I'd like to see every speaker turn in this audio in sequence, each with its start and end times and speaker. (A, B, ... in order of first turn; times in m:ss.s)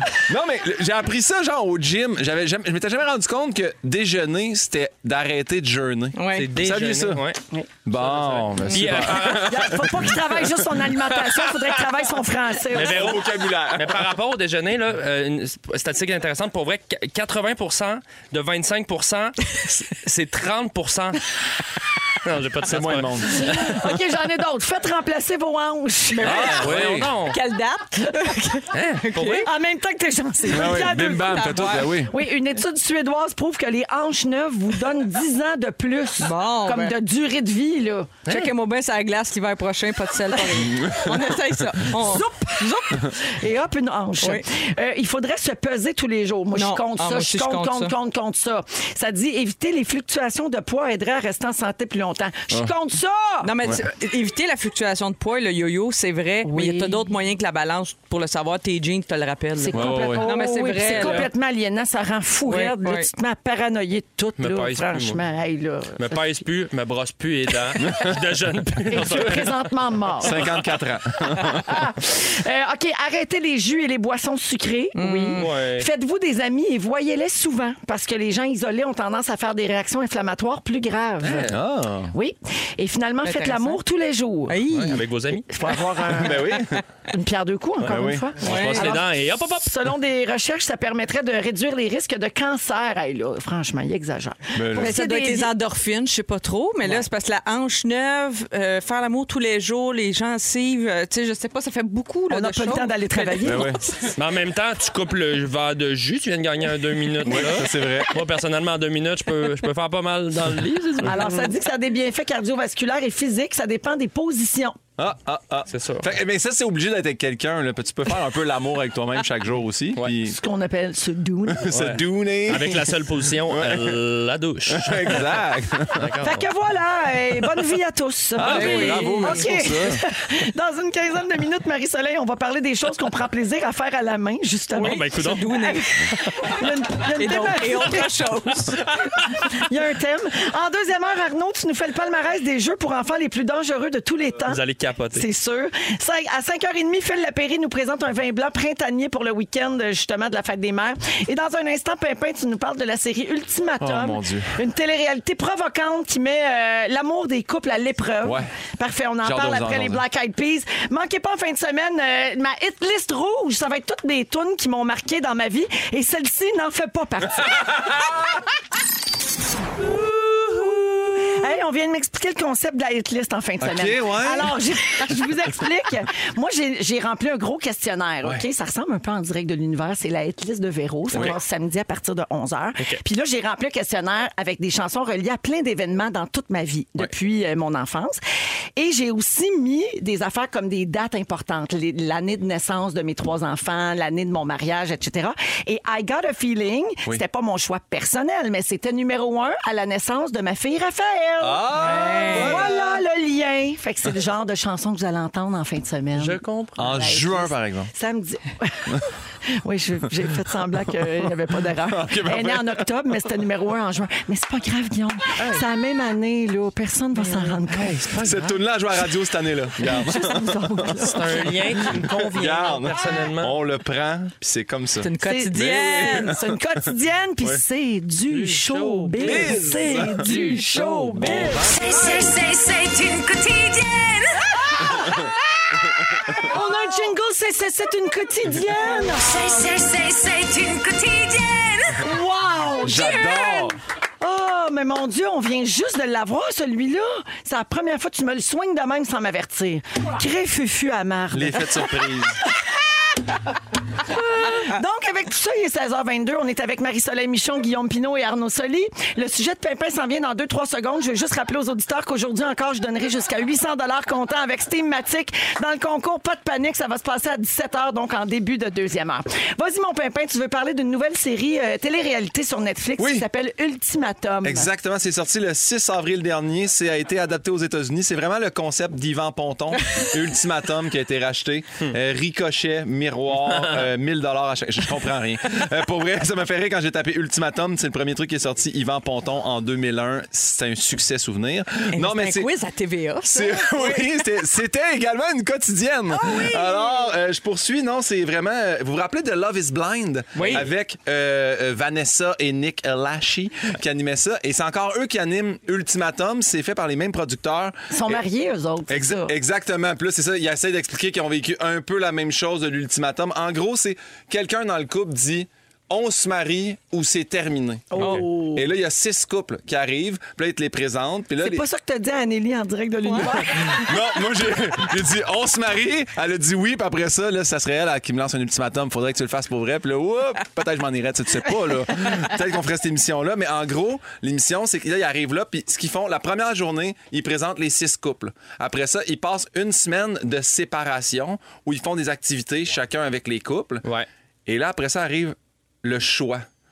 0:00.3-0:07.2 A
0:06.1-0:06.5 B
0:06.3-0:07.4 C
0:07.8-0:10.3 A
0:07.9-0:10.2 C
0:08.9-0:13.2 D
0:12.7-0:21.2 C
0:12.7-0:14.1 A
0:22.2-0:23.7 C
0:22.6-0:23.8 A
0:23.4-0:26.6 D
0:26.1-0:26.6 B
0:26.2-0:27.1 A
0:26.2-0:27.4 C
0:27.3-0:29.5 B
0:28.7-0:29.5 C
0:29.4-0:38.1 D
0:30.5-0:32.1 A
0:30.6-0:31.9 B
0:36.2-0:36.9 B
0:38.3-0:43.0 B
0:40.4-0:40.8 D
0:40.7-0:41.3 A
0:41.9-0:53.5 D
0:46.5-0:47.9 B
0:53.4-1:01.3 B
0:56.4-0:57.1 D
0:59.6-1:06.3 D
0:59.7-1:00.2 A
1:00.9-1:01.3 C
1:02.5-1:03.1 B
1:04.4-1:05.2 C
1:06.0-1:09.7 C
1:08.9-1:10.6 D
1:10.2-1:11.6 A
1:11.4-1:21.5 D
1:14.9-1:15.4 B
1:15.4-1:15.9 C
1:21.2-1:21.5 C
1:21.3-1:22.1 A
1:22.1-1:24.6 D
1:23.2-1:23.8 B
1:24.5-1:25.0 B
1:24.8-1:25.5 C
1:25.5-1:35.5 D
1:26.1-1:26.8 A
1:27.8-1:29.7 C
1:27.8-1:28.3 A
1:28.4-1:29.0 B
1:34.5-1:34.9 A
1:34.7-1:44.1 B
1:42.3-1:43.8 D
1:43.4-1:43.8 A
1:44.2-1:51.5 C
1:47.2-1:48.2 A
1:51.0-1:54.8 D
1:55.0-2:00.4 A
1:55.7-1:56.1 C
2:00.2-2:01.7 D
2:01.5-2:04.0 A
2:01.7-2:05.4 C
2:04.7-2:06.1 A
2:05.9-2:06.4 C
2:06.2-2:18.1 D
2:08.4-2:10.0 A
2:08.4-2:09.4 B
2:14.7-2:16.1 B
2:14.8-2:15.8 C
2:17.2-2:19.0 B
2:19.4-2:24.6 D
2:24.5-2:25.2 C
2:25.1-2:48.1 D
2:33.8-2:34.5 A
2:38.2-2:38.5 A
2:39.2-2:40.0 A
2:50.4-3:08.2 D
2:53.6-2:54.6 A
3:01.1-3:01.4 A
3:08.8-3:29.1 D
3:21.4-3:22.9 A
3:21.8-3:22.6 B
3:22.1-3:22.5 C
3:26.1-3:26.8 C
3:26.8-3:27.9 A
3:29.6-3:38.4 D
3:31.8-3:32.8 A
3:37.9-3:46.6 A
3:38.0-3:38.3 C
3:39.8-3:41.9 D
3:41.0-3:43.5 C
3:45.0-3:46.4 B
3:45.2-3:51.9 D
3:48.3-3:51.5 C
3:49.2-3:51.9 A
3:51.7-3:54.4 E
3:54.9-3:55.3 A
3:56.0-3:56.5 A
3:56.4-3:59.6 D
3:59.2-4:02.0 E
4:02.0-4:12.0 D
4:02.8-4:03.8 A
4:11.3-4:12.4 A
4:14.0-4:34.7 D
4:33.0-4:33.2 A
4:34.4-4:52.5 A
4:51.9-4:54.2 B
4:53.2-5:08.2 A
4:56.1-4:57.0 B
5:00.4-5:00.6 B
5:00.4-5:00.6 C
5:07.9-5:09.3 D
5:08.9-5:21.6 A
5:17.9-5:18.6 D
5:21.4-5:24.0 D
5:23.0-5:23.3 B
5:23.4-5:43.8 A
5:44.4-5:46.5 A